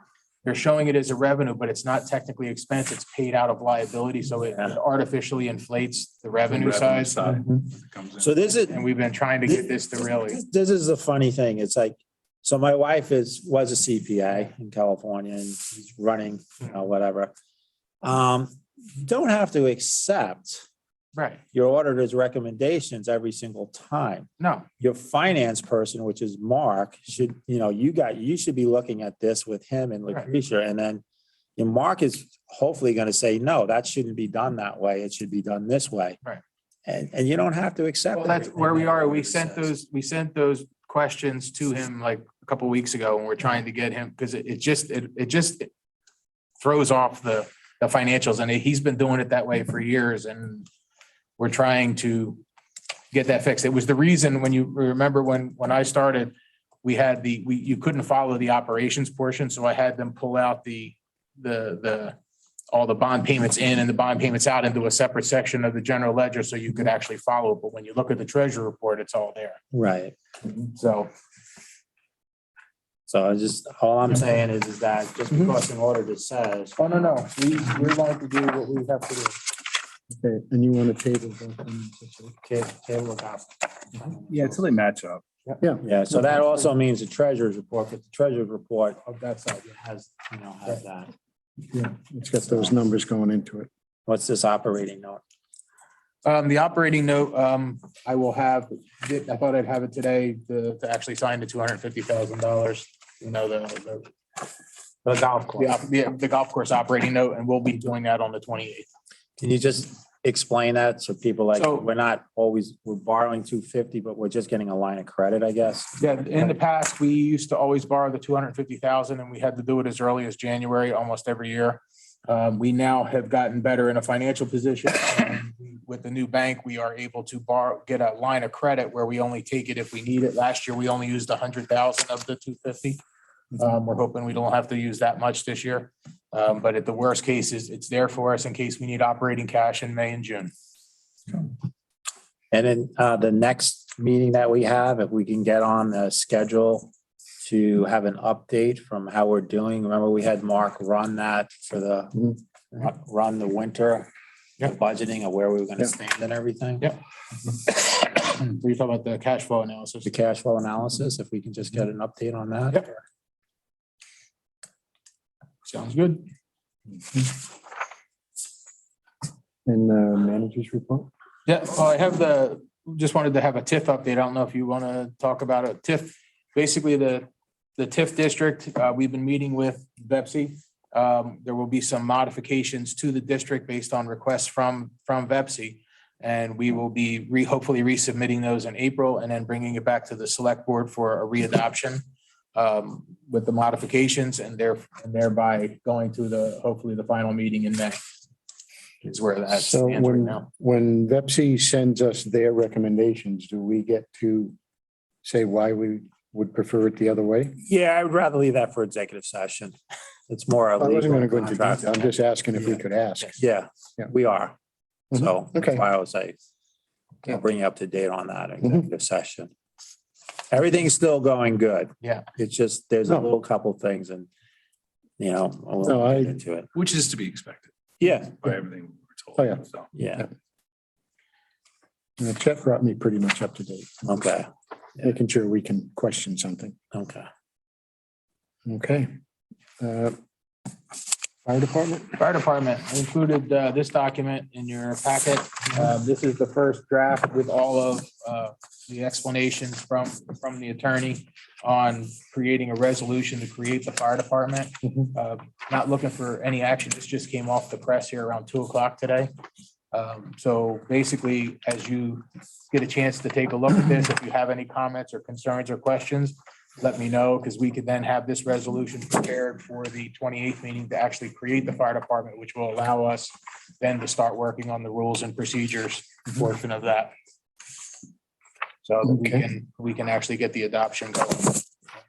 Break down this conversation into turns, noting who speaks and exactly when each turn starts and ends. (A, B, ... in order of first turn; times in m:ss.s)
0:00.4-0:07.3 A
0:06.5-0:08.3 B
0:08.2-0:08.8 C
0:08.6-0:10.4 A
0:09.5-0:17.3 C
0:18.0-0:20.6 C
0:21.1-0:21.4 A
0:21.5-0:31.0 C
0:24.4-0:24.6 A
0:31.6-0:36.2 C
0:36.8-0:39.7 C
0:38.1-0:45.7 A
0:46.6-0:50.7 A
0:51.4-0:52.4 A
0:53.1-1:02.2 A
1:02.7-1:09.6 A
1:09.7-1:10.1 C
1:10.7-1:11.1 A
1:13.1-1:17.2 C
1:16.8-1:19.4 A
1:20.1-1:22.4 D
1:22.4-1:24.6 C
1:24.3-1:25.2 B
1:25.8-1:29.0 C
1:29.0-1:29.9 A
1:29.8-1:31.1 C
1:31.7-1:33.7 D
1:32.4-1:32.7 C
1:34.1-1:35.2 C
1:36.2-1:44.1 A
1:45.0-1:45.7 C
1:45.6-1:48.9 A
1:49.4-1:56.5 C
1:51.5-1:51.8 A
1:56.0-2:13.0 A
2:13.6-2:20.5 A
2:22.5-2:26.9 C
2:27.4-2:34.1 C
2:34.6-2:36.9 C
2:37.7-2:40.1 A
2:40.0-2:43.0 C
2:45.6-2:46.3 A
2:49.6-2:51.1 D
2:51.4-3:12.0 A
3:12.5-3:18.0 A
3:19.0-3:20.5 A
3:19.5-3:24.5 D
3:25.2-3:27.6 D
3:27.6-3:29.7 C
3:30.3-3:32.1 C
3:30.8-3:33.4 D
3:33.4-3:34.6 C
3:35.1-3:36.4 C
3:35.1-3:35.8 D
3:37.2-3:39.5 C
3:40.5-3:44.3 C
3:42.0-3:42.3 A
3:45.2-3:46.7 C
3:45.8-3:46.3 D
3:46.7-3:49.9 B
3:49.4-3:49.6 D
3:49.9-3:50.3 C
3:52.2-3:54.0 D
3:54.0-3:54.5 C
3:55.0-3:56.7 D
3:56.9-3:57.3 C
3:58.6-3:59.1 D
3:59.8-4:00.2 D
4:01.4-4:02.1 D
4:02.2-4:19.3 A
4:19.9-4:37.1 A
4:38.8-4:41.6 A